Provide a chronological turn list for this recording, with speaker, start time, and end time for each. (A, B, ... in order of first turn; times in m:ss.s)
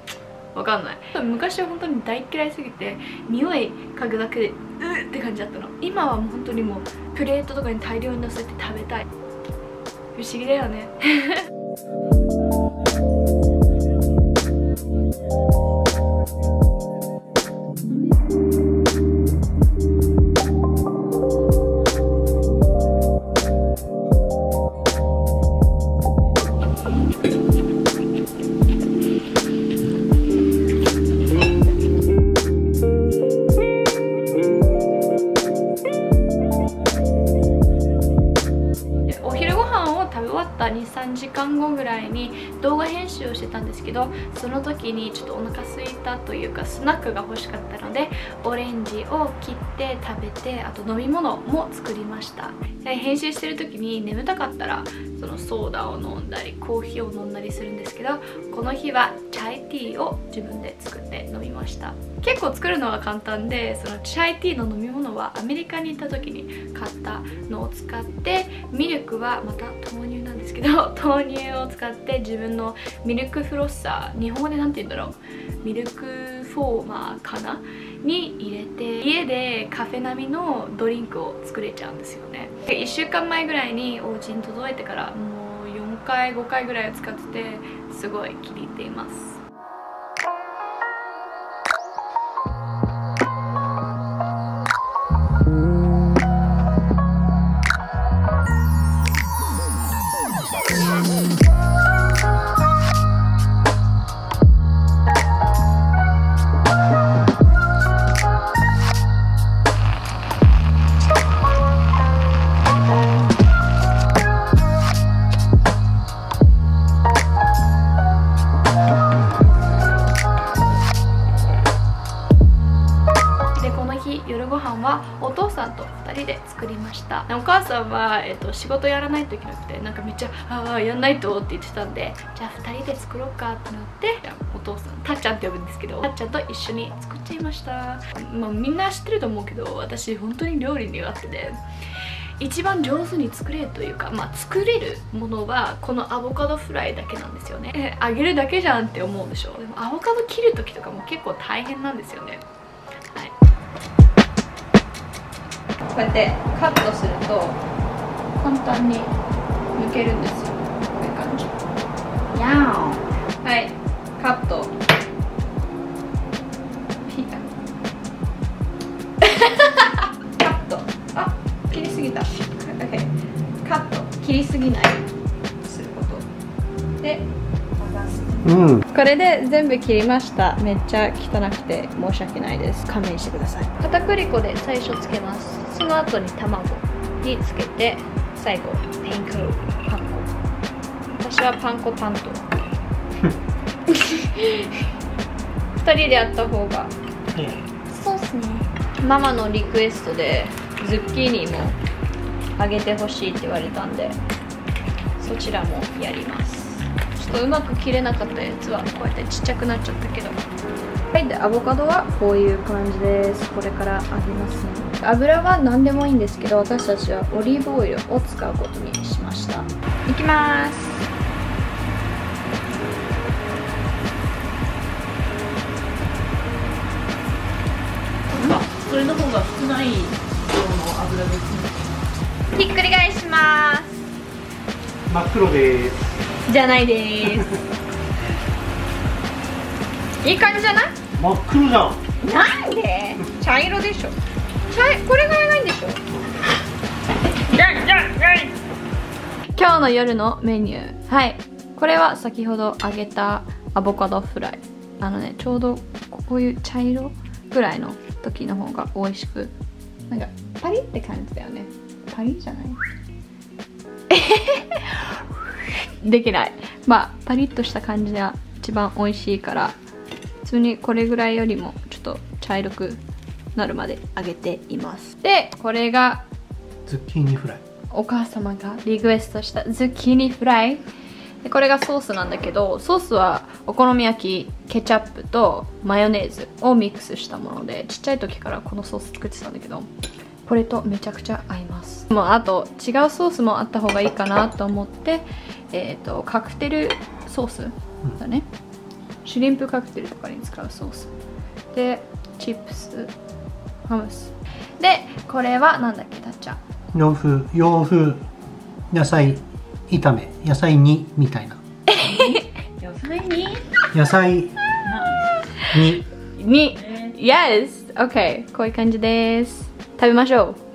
0:00.5-0:09.1 A
0:10.2-0:11.5 A
0:39.1-1:29.4 A
2:03.6-2:21.6 A
2:22.4-2:32.4 A
2:35.9-2:37.6 A
2:38.4-2:39.1 A
2:39.8-2:41.5 A
2:42.3-2:44.7 A
2:47.1-2:47.5 A
2:49.2-2:53.1 A
2:53.6-2:55.1 A
2:55.6-2:56.3 A
2:57.0-2:57.3 A
2:57.8-3:10.3 A
2:58.4-2:58.8 B
3:11.1-3:12.4 A
3:13.9-3:14.9 A
3:15.8-3:16.9 A
3:17.3-3:17.6 B
3:17.9-3:21.8 A
3:22.6-3:24.2 A
3:25.2-3:30.4 A
3:31.1-3:41.0 A
3:48.4-3:51.8 C
3:52.5-3:54.0 A
3:55.1-3:56.0 B
3:56.5-3:57.6 A
4:00.2-4:00.9 A
4:01.2-4:02.0 B
4:02.2-4:04.2 A
4:04.7-4:06.0 A
4:07.5-4:08.5 A
4:09.5-4:19.5 A
4:20.1-4:22.8 A
4:24.1-4:25.2 A
4:25.8-4:29.8 A
4:30.4-4:33.0 A
4:33.6-4:36.2 A
4:36.9-4:37.6 B
4:37.9-4:40.8 A
4:41.4-4:49.9 A
4:50.5-4:58.5 A
4:59.2-5:01.1 A
5:01.7-5:03.1 A
5:03.8-5:06.6 A
5:06.9-5:08.2 B
5:08.9-5:11.6 B
5:11.9-5:12.6 A
5:12.1-5:13.7 C
5:13.9-5:14.5 B
5:14.8-5:15.3 C
5:15.7-5:16.1 B
5:15.9-5:20.6 A